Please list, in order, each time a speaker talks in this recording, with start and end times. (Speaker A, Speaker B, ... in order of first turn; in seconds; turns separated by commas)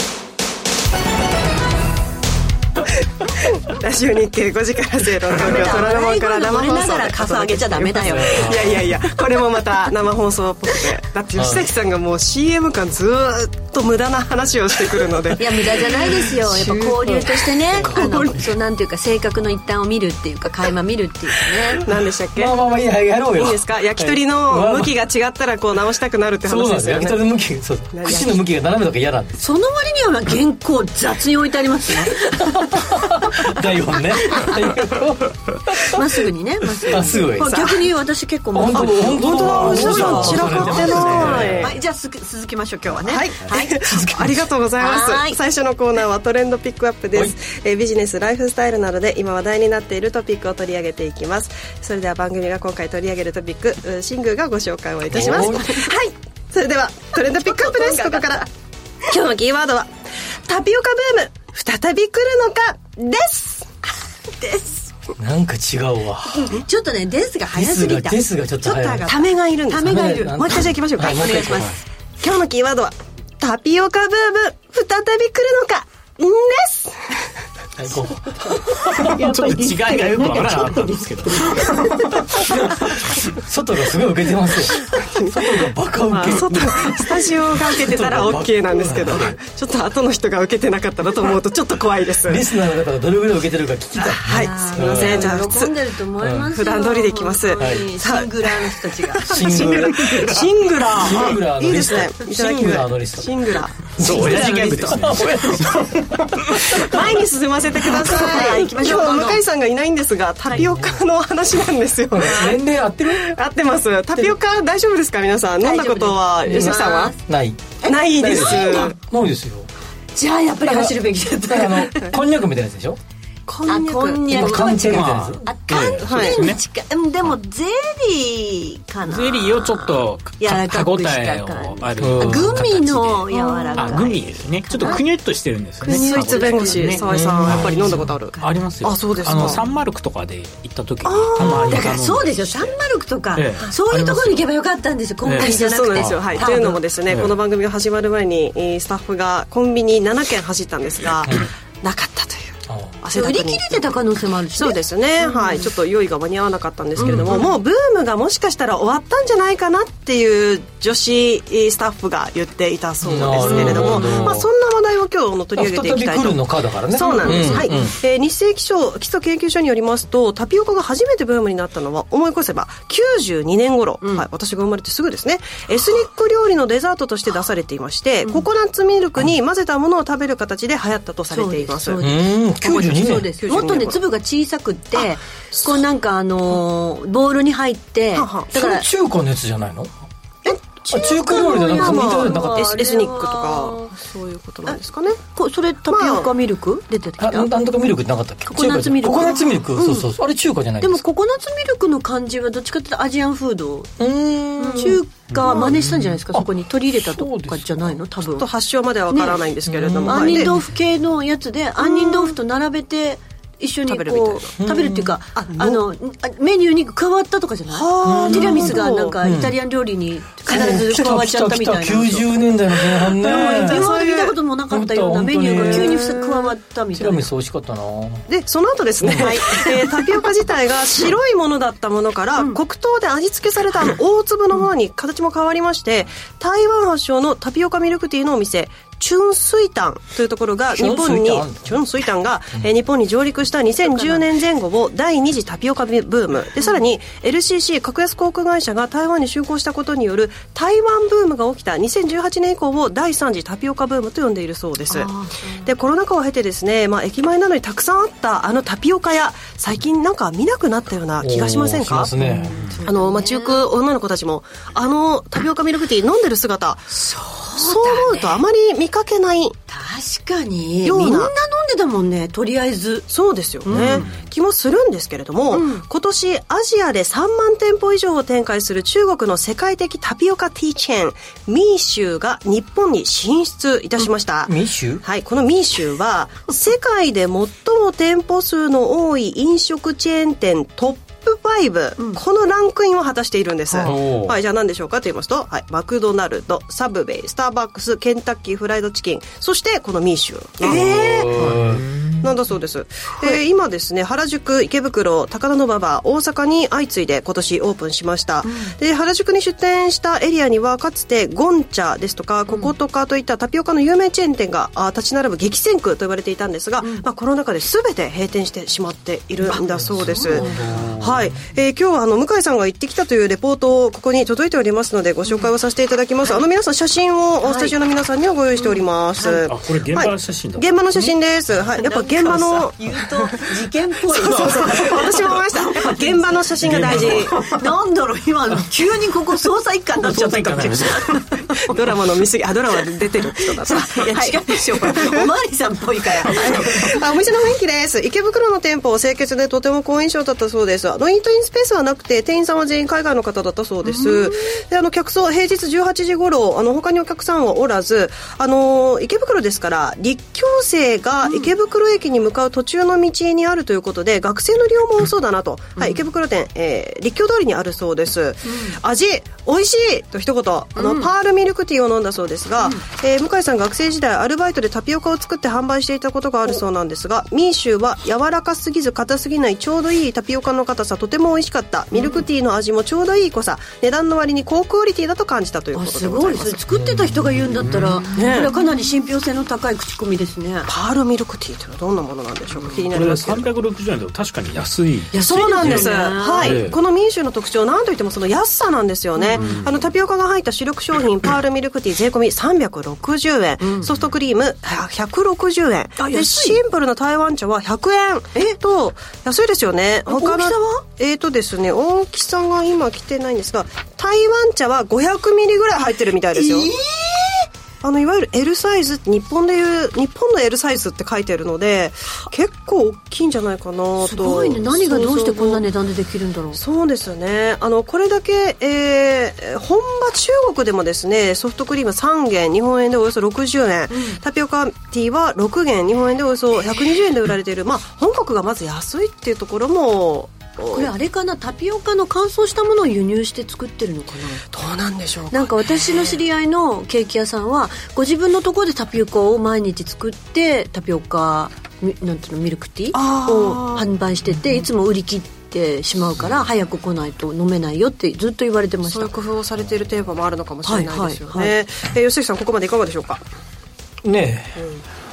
Speaker A: 3.6-18.4, Speaker B: 5.4-8.6, Speaker C: 8.0-8.8, Speaker C: 11.3-11.7, Speaker B: 15.4-21.9, Speaker C: 17.8-18.1, Speaker A: 21.8-22.6, Speaker C: 22.4-24.9, Speaker A: 23.4-27.2, Speaker C: 26.4-29.4, Speaker A: 27.9-28.4, Speaker B: 29.4-33.1, Speaker C: 32.8-36.0, Speaker B: 35.9-43.8, Speaker C: 36.8-37.7, Speaker A: 37.4-37.8, Speaker C: 38.5-41.7, Speaker A: 38.7-41.7, Speaker D: 40.9-41.5, Speaker A: 43.0-58.5, Speaker C: 43.8-44.5, Speaker B: 44.8-45.4, Speaker C: 55.1-55.8, Speaker B: 55.4-55.7, Speaker B: 57.5-58.3, Speaker A: 59.1-59.9, Speaker A: 60.5-63.7, Speaker B: 64.4-64.9, Speaker C: 65.2-66.5, Speaker B: 66.4-71.8, Speaker C: 67.5-69.2, Speaker A: 68.7-71.6, Speaker C: 69.7-71.7, Speaker A: 72.2-77.0, Speaker C: 77.8-78.4, Speaker D: 78.9-83.1, Speaker B: 79.0-82.0, Speaker C: 83.4-89.4, Speaker A: 84.9-92.4, Speaker C: 92.3-95.4, Speaker A: 94.0-95.8, Speaker B: 94.3-99.8, Speaker C: 96.2-96.5, Speaker A: 96.5-103.8, Speaker C: 97.6-97.9, Speaker C: 99.3-103.4, Speaker D: 104.0-106.0, Speaker C: 104.0-107.0, Speaker B: 104.3-104.7, Speaker A: 106.8-117.2, Speaker B: 108.0-109.4, Speaker C: 110.6-110.9, Speaker C: 112.1-113.2, Speaker B: 115.6-117.1, Speaker C: 116.5-119.7, Speaker B: 117.8-118.9, Speaker A: 117.9-119.0, Speaker B: 120.2-122.2, Speaker C: 120.7-123.0, Speaker A: 123.5-124.8, Speaker B: 123.6-135.0, Speaker C: 124.3-125.5, Speaker D: 124.8-126.6, Speaker A: 126.0-126.4, Speaker D: 129.0-142.8, Speaker C: 132.0-132.7, Speaker A: 133.3-134.0, Speaker B: 135.8-137.1, Speaker A: 135.8-139.6, Speaker C: 137.1-137.9, Speaker A: 141.1-141.9, Speaker B: 141.5-146.8, Speaker D: 143.3-144.5, Speaker D: 145.2-147.3, Speaker A: 145.4-154.0, Speaker C: 152.7-153.0, Speaker B: 153.1-155.6, Speaker A: 154.6-182.0, Speaker C: 157.0-157.4, Speaker B: 157.1-157.4, Speaker C: 163.0-164.5, Speaker B: 163.3-164.2, Speaker C: 165.6-168.0, Speaker B: 167.0-167.8, Speaker B: 181.3-188.9, Speaker C: 182.0-183.3, Speaker A: 183.4-184.0, Speaker A: 188.2-188.5, Speaker C: 188.5-189.9, Speaker A: 190.5-195.2, Speaker C: 190.9-192.8, Speaker B: 191.1-193.9, Speaker B: 194.7-197.5, Speaker A: 195.9-196.3, Speaker C: 197.2-201.1, Speaker B: 198.5-200.1, Speaker B: 200.8-203.9, Speaker C: 204.0-205.7, Speaker B: 204.6-208.5, Speaker D: 205.3-206.2, Speaker C: 206.3-208.0, Speaker A: 208.4-210.6, Speaker B: 209.1-209.4, Speaker C: 209.7-210.6, Speaker B: 210.1-222.3, Speaker A: 211.8-212.4, Speaker A: 213.9-214.5, Speaker C: 214.6-215.2, Speaker A: 215.4-215.8, Speaker A: 217.7-219.2, Speaker C: 218.0-219.6, Speaker C: 220.5-223.9, Speaker B: 223.1-227.3, Speaker A: 223.5-224.3, Speaker C: 224.7-226.1, Speaker A: 225.5-226.5, Speaker C: 226.9-228.3, Speaker A: 228.3-255.1, Speaker C: 229.0-229.5, Speaker C: 240.7-241.8, Speaker B: 243.8-244.2, Speaker B: 254.9-255.7, Speaker A: 255.6-262.1, Speaker C: 261.2-262.7, Speaker B: 262.2-263.6, Speaker A: 262.9-266.9, Speaker B: 266.9-268.4, Speaker A: 267.6-269.6, Speaker B: 269.7-273.1, Speaker A: 270.8-271.3, Speaker A: 273.1-301.6, Speaker B: 273.7-274.1, Speaker D: 273.7-274.2, Speaker B: 275.5-275.9, Speaker C: 284.5-285.0, Speaker C: 293.8-294.4, Speaker C: 300.6-301.9, Speaker D: 301.4-302.2, Speaker A: 302.2-332.8, Speaker B: 308.4-308.7, Speaker B: 316.8-317.1, Speaker D: 320.0-321.4, Speaker B: 320.0-320.6, Speaker B: 327.4-327.8, Speaker B: 328.6-329.4, Speaker D: 329.4-331.1, Speaker B: 331.8-341.8, Speaker A: 334.1-337.4, Speaker D: 336.6-337.6, Speaker D: 340.0-341.2, Speaker A: 341.7-345.3, Speaker B: 343.6-347.0, Speaker A: 346.2-386.6, Speaker B: 353.8-354.6, Speaker B: 361.2-361.5, Speaker B: 368.5-368.8, Speaker B: 370.8-371.1, Speaker B: 382.0-382.2, Speaker B: 385.7-390.7, Speaker C: 386.7-387.7, Speaker D: 387.6-388.0, Speaker A: 388.1-388.5, Speaker A: 390.7-393.5, Speaker D: 392.9-396.8, Speaker B: 395.1-396.6, Speaker A: 395.2-416.7, Speaker B: 399.2-399.6, Speaker D: 399.4-399.7, Speaker B: 403.6-403.9, Speaker B: 406.0-406.6, Speaker B: 410.1-410.8, Speaker B: 416.3-417.5, Speaker A: 417.8-425.6, Speaker B: 424.0-426.6, Speaker A: 426.6-440.9, Speaker B: 433.9-434.2, Speaker B: 440.7-444.4, Speaker A: 444.5-446.2, Speaker B: 445.3-459.1, Speaker A: 452.9-453.9, Speaker A: 458.9-463.2, Speaker B: 460.6-461.5, Speaker C: 464.0-464.6, Speaker A: 464.6-464.8